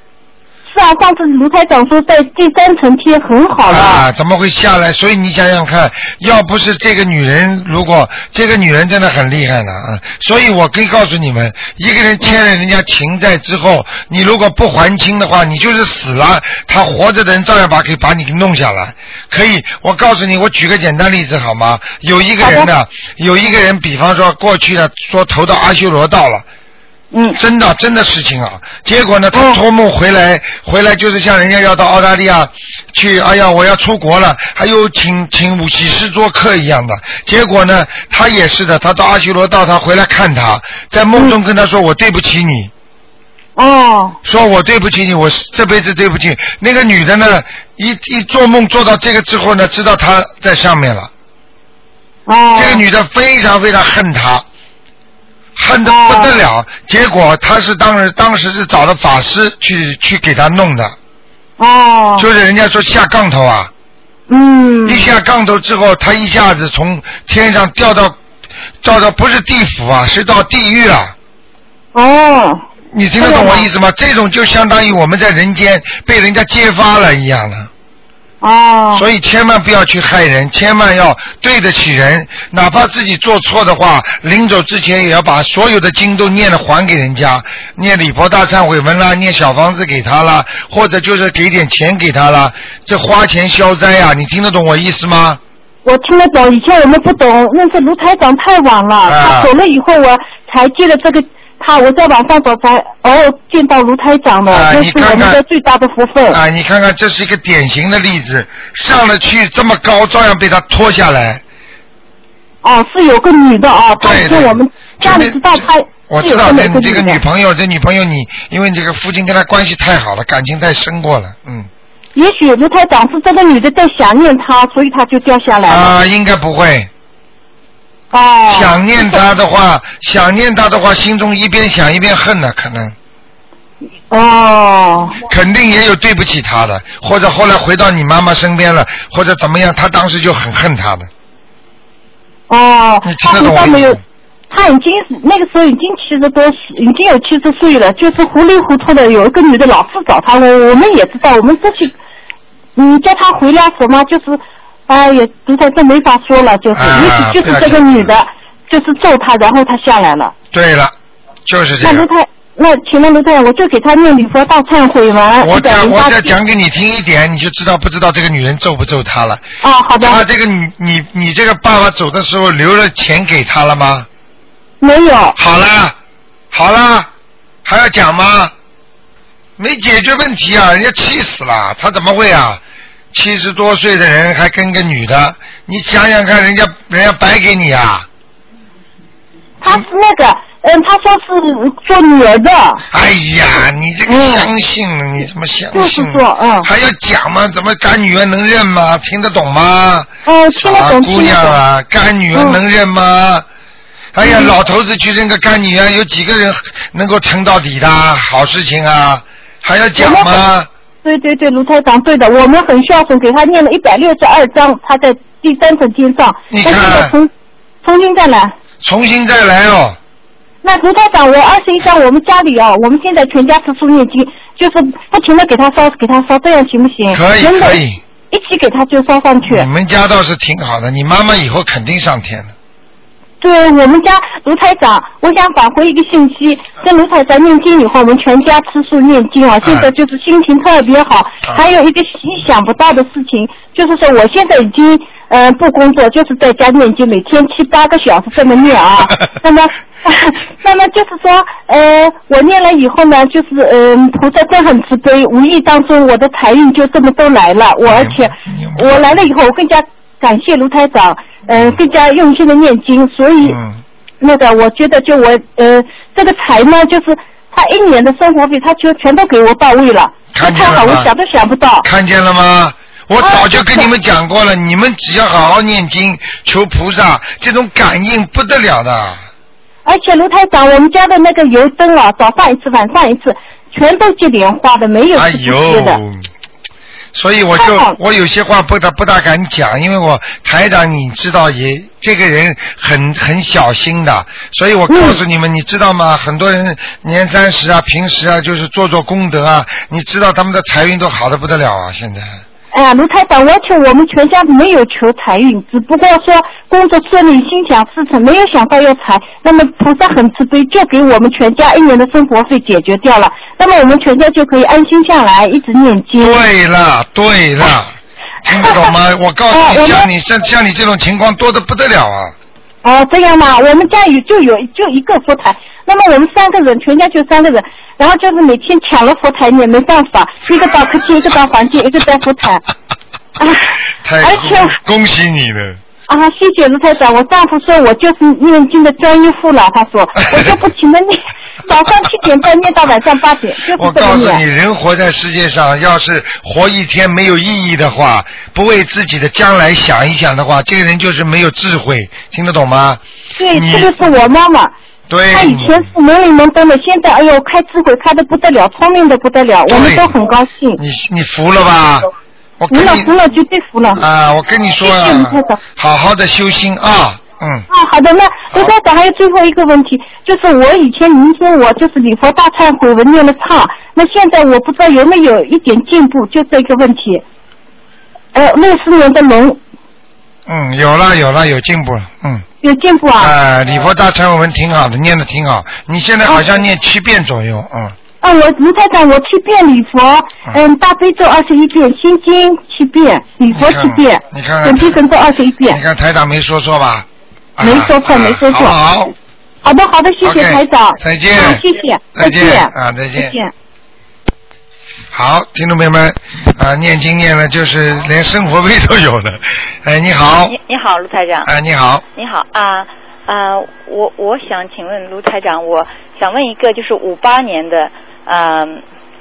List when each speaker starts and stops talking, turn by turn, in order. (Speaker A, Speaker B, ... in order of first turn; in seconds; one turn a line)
Speaker A: 0.7-4.0
Speaker B: 3.7-26.4
Speaker A: 22.4-22.7
Speaker A: 27.1-27.4
Speaker B: 27.4-42.7
Speaker A: 29.3-29.6
Speaker A: 43.5-44.2
Speaker B: 44.2-51.1
Speaker A: 52.3-52.8
Speaker B: 52.5-54.5
Speaker B: 55.5-61.0
Speaker A: 55.9-56.3
Speaker A: 61.6-62.3
Speaker B: 62.2-63.7
Speaker A: 64.3-65.1
Speaker B: 64.8-68.2
Speaker B: 68.8-71.1
Speaker A: 71.9-72.6
Speaker B: 72.9-77.7
Speaker A: 73.2-73.7
Speaker A: 78.4-79.0
Speaker B: 78.9-95.4
Speaker A: 95.8-106.4
Speaker B: 99.0-99.5
Speaker B: 104.5-105.4
Speaker B: 106.3-111.4
Speaker A: 112.6-117.2
Speaker B: 114.0-121.7
Speaker A: 122.1-125.9
Speaker B: 125.7-126.9
Speaker A: 128.1-129.2
Speaker B: 128.5-132.9
Speaker A: 134.1-135.2
Speaker B: 135.2-141.1
Speaker A: 142.5-144.0
Speaker B: 143.0-144.0
Speaker A: 144.5-151.9
Speaker A: 152.7-160.3
Speaker B: 156.7-158.1
Speaker B: 160.5-160.9
Speaker B: 161.4-162.1
Speaker A: 161.8-166.3
Speaker B: 165.4-169.4
Speaker A: 169.6-170.2
Speaker B: 170.0-174.1
Speaker A: 174.8-175.4
Speaker B: 175.4-175.9
Speaker B: 176.5-177.1
Speaker B: 177.6-178.5
Speaker B: 179.6-182.6
Speaker B: 183.1-188.1
Speaker A: 189.6-192.8
Speaker B: 192.9-203.4
Speaker A: 194.1-194.5
Speaker A: 195.7-196.7
Speaker A: 200.2-201.6
Speaker A: 202.3-202.6
Speaker B: 204.1-210.7
Speaker A: 204.2-204.5
Speaker A: 210.0-210.4
Speaker A: 211.0-217.3
Speaker B: 216.5-217.1
Speaker A: 217.8-218.5
Speaker B: 218.8-220.0
Speaker A: 220.6-227.8
Speaker B: 227.1-228.0
Speaker A: 228.3-229.7
Speaker B: 229.4-232.5
Speaker A: 233.4-263.6
Speaker B: 239.6-239.9
Speaker B: 257.8-259.3
Speaker B: 261.5-261.8
Speaker B: 263.4-263.8
Speaker A: 264.2-271.9
Speaker B: 270.3-271.1
Speaker B: 271.8-279.2
Speaker A: 273.2-273.9
Speaker A: 279.9-286.0
Speaker B: 285.1-286.3
Speaker B: 287.1-302.4
Speaker A: 287.6-287.9
Speaker A: 294.9-295.2
Speaker A: 302.7-316.4
Speaker B: 316.2-317.9
Speaker B: 318.4-322.3
Speaker A: 319.5-320.1
Speaker A: 322.8-332.6
Speaker A: 333.4-334.8
Speaker B: 334.0-335.8
Speaker A: 336.1-344.4
Speaker B: 343.8-354.1
Speaker A: 353.4-354.7
Speaker B: 355.1-355.9
Speaker A: 355.3-360.8
Speaker B: 359.7-360.1
Speaker B: 360.8-363.1
Speaker A: 362.7-364.0
Speaker B: 363.9-367.6
Speaker A: 364.8-365.6
Speaker A: 367.7-377.2
Speaker A: 378.3-379.6
Speaker B: 380.5-382.4
Speaker A: 382.6-383.3
Speaker B: 383.2-387.9
Speaker A: 388.2-395.8
Speaker B: 393.5-395.0
Speaker B: 395.7-399.1
Speaker A: 397.6-398.7
Speaker A: 399.6-403.5
Speaker B: 400.2-401.6
Speaker B: 402.1-403.4
Speaker B: 405.1-410.5
Speaker C: 410.5-411.5
Speaker B: 411.4-412.0
Speaker C: 412.1-418.8